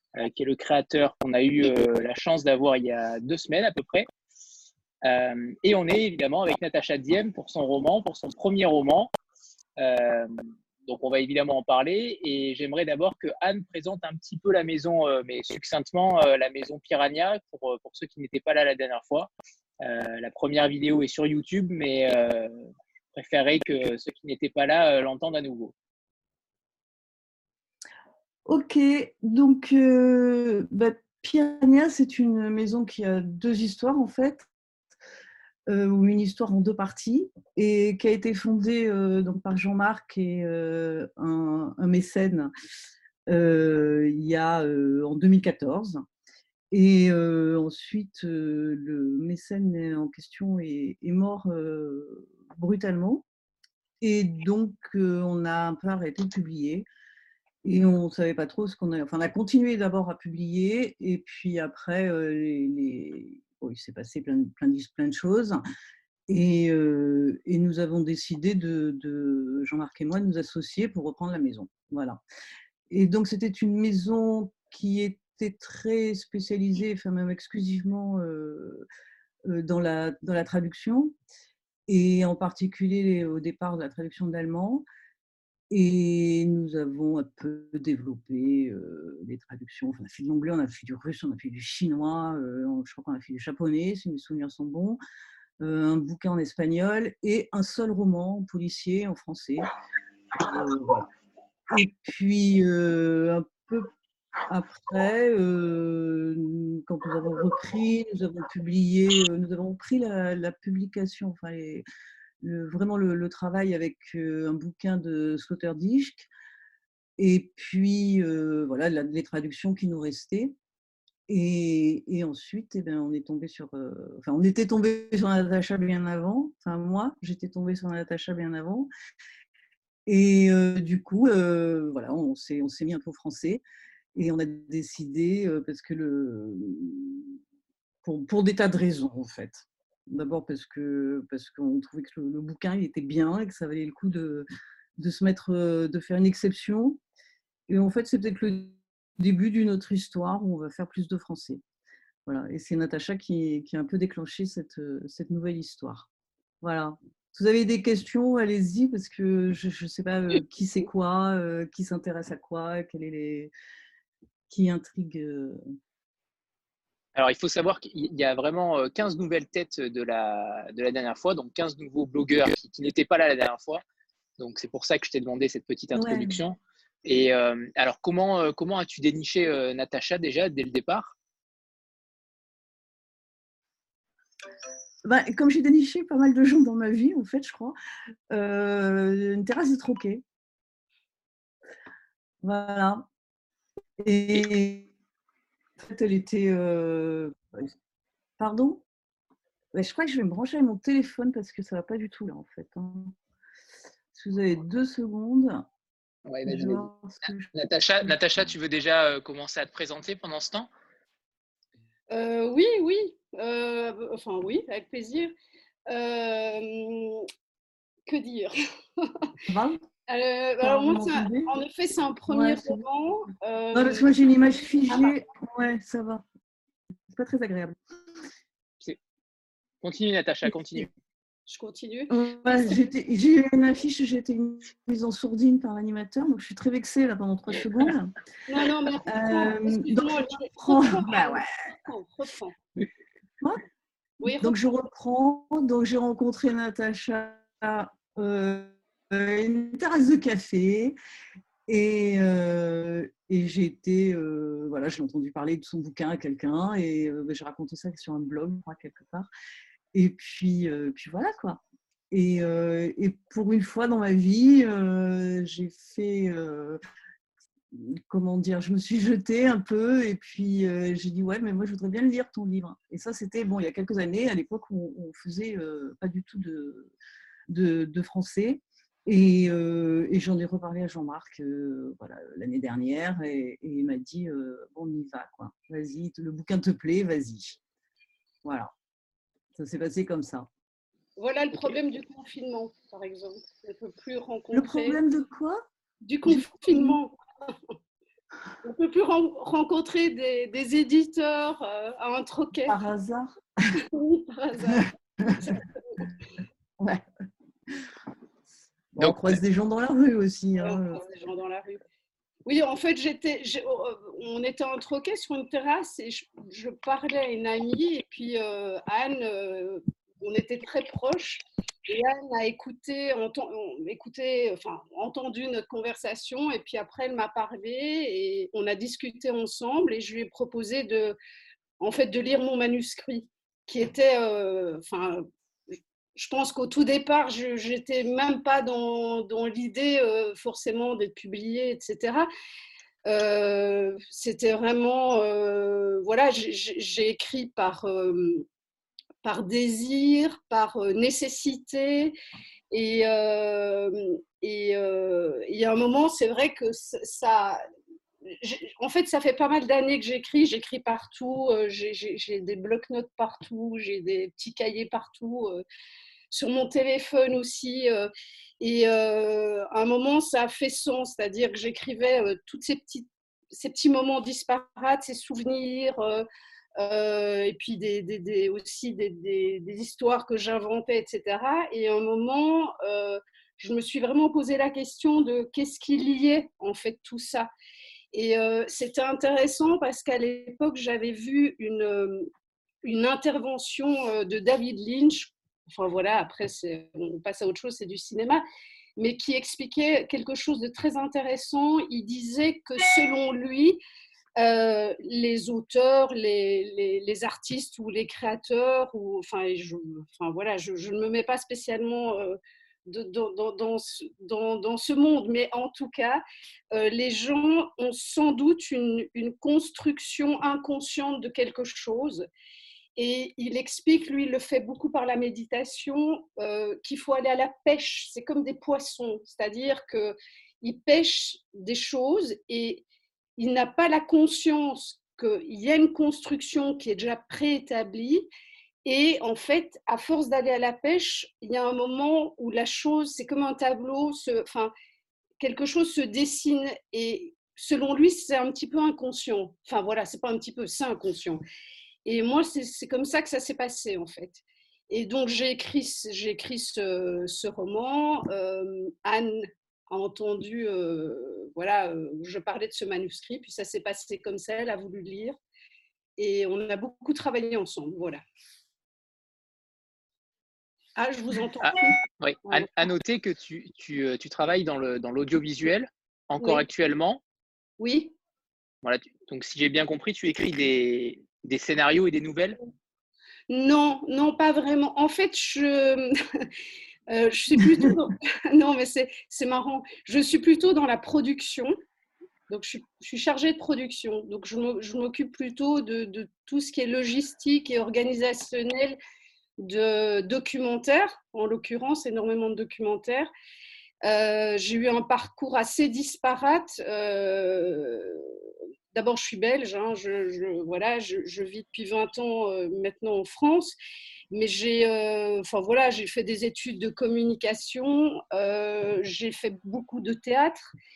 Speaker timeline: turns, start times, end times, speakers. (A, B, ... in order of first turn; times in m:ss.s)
0:00.2-0:04.1 A
0:05.0-0:09.1 A
0:09.8-0:19.3 A
0:19.8-0:25.7 A
0:28.4-0:34.5 B
0:35.7-0:42.5 B
0:43.3-0:46.0 B
0:46.7-0:53.2 B
0:54.0-0:56.9 B
0:57.6-1:05.6 B
1:06.3-1:12.2 B
1:12.9-1:18.8 B
1:19.4-1:21.1 B
1:21.9-1:24.8 B
1:25.7-1:35.0 B
1:35.6-1:39.7 B
1:40.4-1:41.1 B
1:41.7-1:43.9 B
1:44.5-1:51.8 B
1:52.4-1:56.3 B
1:57.2-2:00.5 B
2:01.3-2:08.9 B
2:10.1-2:13.6 B
2:14.1-2:17.3 B
2:18.0-2:27.0 B
2:27.7-2:31.6 B
2:32.2-2:36.1 B
2:36.6-2:43.5 B
2:44.5-2:45.6 B
2:47.1-2:53.8 A
2:54.4-3:01.1 A
2:55.9-2:56.4 B
3:05.0-3:07.8 B
3:08.3-3:10.2 B
3:12.4-3:13.0 B
3:14.0-3:14.9 B
3:15.8-3:17.7 B
3:18.4-3:18.8 B
3:19.7-3:23.1 B
3:24.1-3:25.6 B
3:26.3-3:26.9 A
3:26.4-3:27.5 B
3:27.5-3:30.7 A
3:32.1-3:35.3 C
3:35.9-3:37.3 C
3:38.1-3:39.3 C
3:39.5-3:39.8 B
3:40.1-3:44.1 C
3:40.6-3:41.5 B
3:42.3-3:42.8 B
3:43.7-3:46.2 B
3:44.9-3:45.2 C
3:47.1-3:47.8 B
3:49.8-3:50.9 A
3:51.5-3:52.1 C
3:52.1-3:58.1 B
3:58.5-4:02.5 C
3:59.0-4:01.5 B
4:04.2-4:04.5 C
4:04.4-4:11.0 B
4:11.7-4:19.3 B
4:19.9-4:26.8 B
4:27.7-4:36.9 B
4:37.5-4:47.6 B
4:48.4-4:48.7 B
4:49.5-4:50.5 B
4:51.2-4:55.0 C
4:54.5-4:55.6 B
4:56.0-4:57.1 C
4:56.3-4:57.0 B
4:58.6-5:02.8 C
5:02.7-5:03.3 B
5:03.9-5:06.1 C
5:04.7-5:05.4 B
5:08.9-5:11.0 B
5:09.0-5:09.4 A
5:10.6-5:11.8 C
5:12.4-5:31.2 C
5:31.8-5:35.3 C
5:36.2-5:42.3 C
5:43.0-5:48.4 C
5:49.2-5:52.2 C
5:52.7-5:57.6 C
5:58.4-6:05.6 C
6:06.3-6:16.2 C
6:16.8-6:27.5 C
6:28.1-6:32.3 C
6:32.8-6:38.4 C
6:39.0-6:43.8 C
6:44.4-7:02.3 C
7:03.0-7:12.8 C
7:13.4-7:18.3 C
7:18.8-7:24.7 C
7:25.4-7:31.4 C
7:32.0-7:45.4 C
7:46.2-7:48.2 C
7:51.0-7:52.7 C
7:51.6-7:57.2 A
7:57.8-7:58.1 C
7:58.8-8:02.6 A
8:03.5-8:06.5 C
8:07.1-8:11.7 C
8:07.6-8:07.9 B
8:12.5-8:19.0 C
8:19.6-8:23.3 C
8:24.0-8:28.3 C
8:28.9-8:33.7 C
8:34.3-8:40.7 C